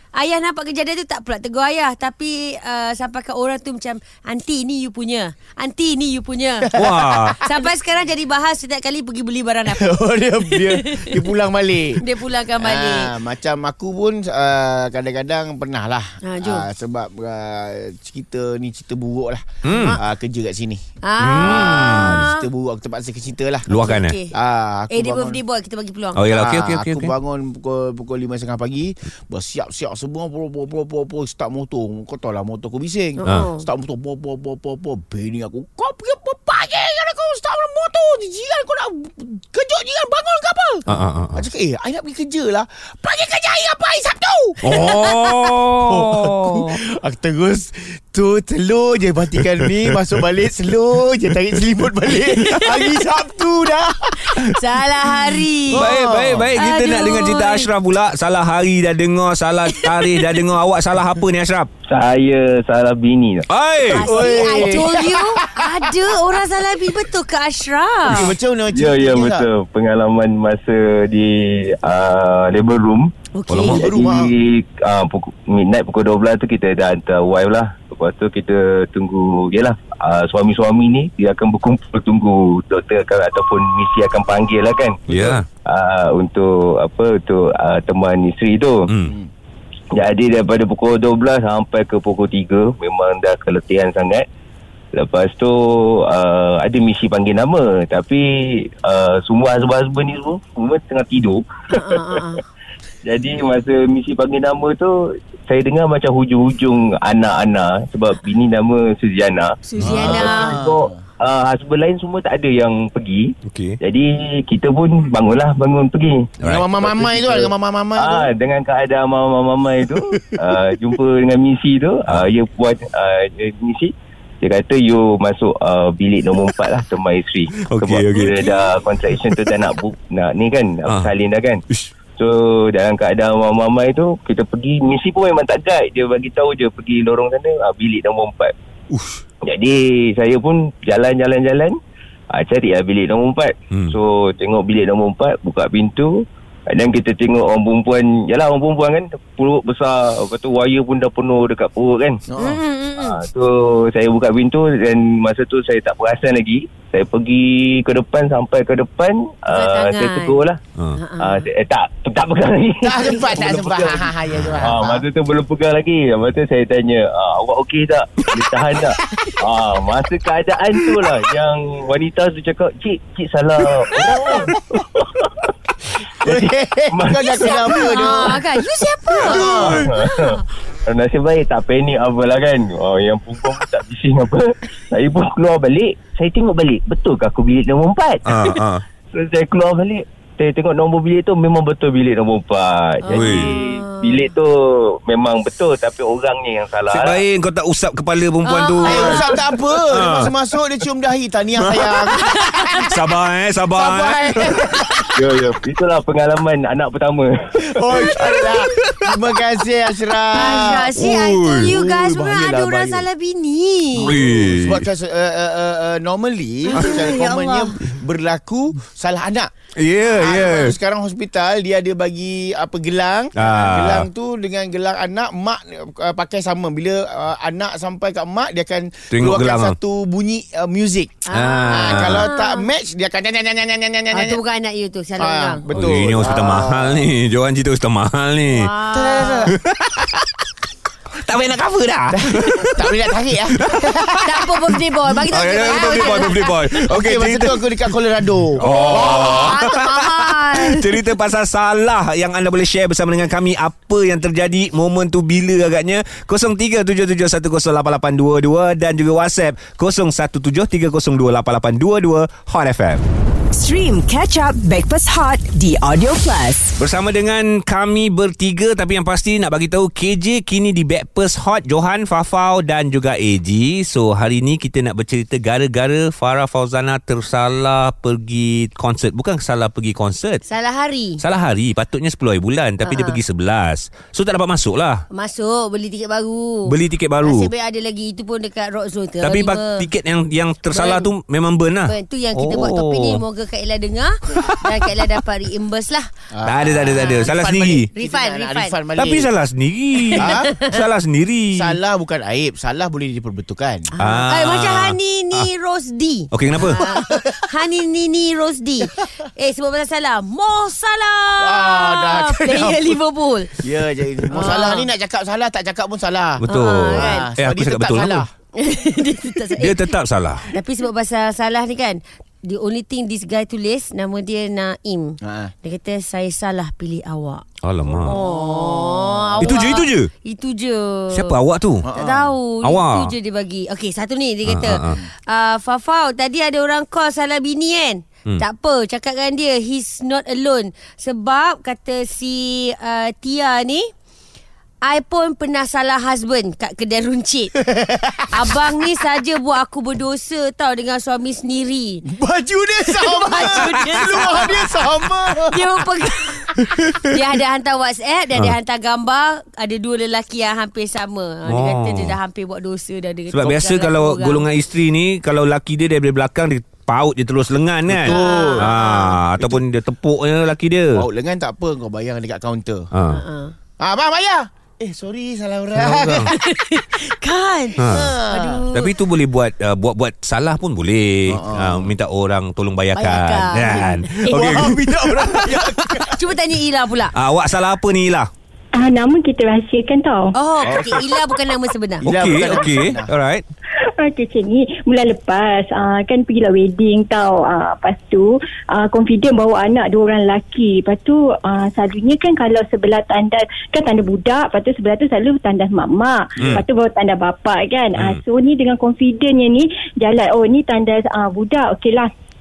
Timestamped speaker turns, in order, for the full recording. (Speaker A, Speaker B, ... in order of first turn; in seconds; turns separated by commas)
Speaker A: 0.1-6.7, Speaker B: 6.6-7.4, Speaker C: 6.8-7.4, Speaker A: 7.4-11.3, Speaker B: 9.7-12.1, Speaker A: 12.0-13.1, Speaker B: 12.6-20.8, Speaker A: 16.2-16.7, Speaker C: 19.6-20.0, Speaker A: 19.7-20.0, Speaker A: 21.0-22.5, Speaker C: 21.2-22.3, Speaker B: 21.4-25.4, Speaker C: 23.7-24.2, Speaker A: 23.7-24.4, Speaker A: 24.9-26.3, Speaker C: 26.1-27.1, Speaker B: 26.3-54.5, Speaker A: 33.2-33.7, Speaker C: 40.9-41.4, Speaker C: 44.6-46.8, Speaker A: 52.3-52.9, Speaker A: 54.3-55.9, Speaker B: 55.7-56.6, Speaker C: 55.7-61.7, Speaker A: 56.6-57.7, Speaker A: 59.8-60.3, Speaker D: 61.9-63.5, Speaker C: 63.5-64.3, Speaker A: 63.9-68.3, Speaker B: 64.0-66.1, Speaker B: 68.1-69.5, Speaker D: 68.7-73.1, Speaker A: 73.3-73.9, Speaker C: 73.5-73.8, Speaker D: 73.7-85.1, Speaker B: 73.8-74.3, Speaker C: 85.1-85.5, Speaker D: 85.7-88.9, Speaker C: 88.9-89.2, Speaker D: 90.0-94.3, Speaker D: 94.9-102.1, Speaker A: 101.7-102.4, Speaker D: 103.0-131.6, Speaker A: 109.7-110.6, Speaker C: 109.8-110.1, Speaker B: 109.8-111.0, Speaker C: 113.5-113.8, Speaker B: 116.4-118.3, Speaker C: 127.6-129.5, Speaker D: 132.2-138.5, Speaker C: 138.9-139.2, Speaker D: 139.5-141.8, Speaker D: 142.3-152.2, Speaker C: 143.7-144.0, Speaker B: 152.3-152.6, Speaker A: 152.4-153.2, Speaker D: 153.0-160.6, Speaker A: 159.5-160.4, Speaker A: 160.9-161.5, Speaker D: 161.2-175.3, Speaker B: 162.8-165.0, Speaker B: 173.9-174.5, Speaker B: 176.2-178.5, Speaker D: 176.2-178.4, Speaker A: 177.4-180.4, Speaker B: 179.1-179.9, Speaker D: 179.3-188.6, Speaker C: 188.2-188.8, Speaker D: 189.1-197.2, Speaker A: 193.0-194.3, Speaker C: 193.1-193.5, Speaker C: 196.9-200.3, Speaker A: 198.4-199.4, Speaker B: 198.8-202.9, Speaker C: 201.6-204.8, Speaker A: 202.4-202.8, Speaker B: 203.8-205.1, Speaker D: 205.2-207.8, Speaker B: 207.6-213.1, Speaker C: 208.4-209.1, Speaker A: 210.3-214.2, Speaker C: 210.6-211.7, Speaker C: 214.0-214.9, Speaker B: 214.0-219.5, Speaker A: 216.7-217.8, Speaker C: 219.8-220.8, Speaker B: 220.1-234.4, Speaker C: 223.4-224.1, Speaker C: 229.1-229.8, Speaker A: 231.3-232.7, Speaker C: 231.3-232.3, Speaker A: 234.1-235.9, Speaker B: 235.2-237.1, Speaker C: 235.7-238.7, Speaker A: 238.5-239.5, Speaker B: 238.9-239.6, Speaker C: 239.6-240.3, Speaker C: 241.2-243.0, Speaker B: 242.1-244.2, Speaker C: 243.5-244.5, Speaker A: 244.2-246.5, Speaker C: 245.3-247.7, Speaker B: 245.5-249.9, Speaker C: 248.6-263.1, Speaker A: 248.6-251.0, Speaker E: 263.5-266.8, Speaker C: 266.8-280.4, Speaker A: 280.5-281.2, Speaker C: 281.2-285.1, Speaker A: 282.9-283.2, Speaker A: 285.1-289.9, Speaker C: 286.7-287.5, Speaker C: 289.2-293.2, Speaker A: 290.7-291.1, Speaker A: 291.9-296.1, Speaker C: 294.4-295.1, Speaker B: 296.3-299.3, Speaker C: 296.5-297.9, Speaker A: 296.9-297.3, Speaker A: 297.9-298.8, Speaker C: 299.0-301.8, Speaker A: 300.0-300.8, Speaker B: 300.1-300.5, Speaker B: 301.6-303.9, Speaker A: 303.9-313.6, Speaker C: 304.0-305.5, Speaker C: 306.3-306.8, Speaker B: 306.6-307.5, Speaker B: 311.4-313.0, Speaker B: 313.6-318.3, Speaker A: 314.3-314.9, Speaker C: 316.4-318.2, Speaker A: 316.5-317.3, Speaker A: 318.6-319.9, Speaker C: 319.6-320.5, Speaker A: 320.5-327.4, Speaker B: 325.2-325.5, Speaker C: 327.6-328.2, Speaker B: 327.9-329.7, Speaker A: 328.0-331.4, Speaker C: 329.4-330.1, Speaker C: 331.1-331.9, Speaker B: 331.8-332.3, Speaker A: 331.9-343.9, Speaker C: 332.6-333.1, Speaker C: 334.5-335.0, Speaker B: 334.8-335.1, Speaker A: 344.8-347.6, Speaker B: 347.7-348.6, Speaker A: 348.3-352.1, Speaker B: 352.1-355.8, Speaker A: 352.9-364.4, Speaker C: 361.5-362.2, Speaker C: 363.3-371.1, Speaker B: 367.9-368.7, Speaker A: 368.1-369.2, Speaker B: 370.9-372.9, Speaker C: 372.9-373.2, Speaker A: 373.1-373.6, Speaker B: 373.8-376.4, Speaker C: 375.8-376.3, Speaker A: 376.2-378.9, Speaker B: 377.8-378.6, Speaker C: 377.8-378.1, Speaker C: 378.7-385.6, Speaker B: 381.3-381.9, Speaker A: 382.9-387.1, Speaker B: 384.2-386.3, Speaker C: 387.1-388.3, Speaker F: 388.8-390.4, Speaker A: 390.4-392.1, Speaker B: 390.6-391.4, Speaker B: 392.0-393.1, Speaker C: 392.1-393.4, Speaker F: 394.0-412.1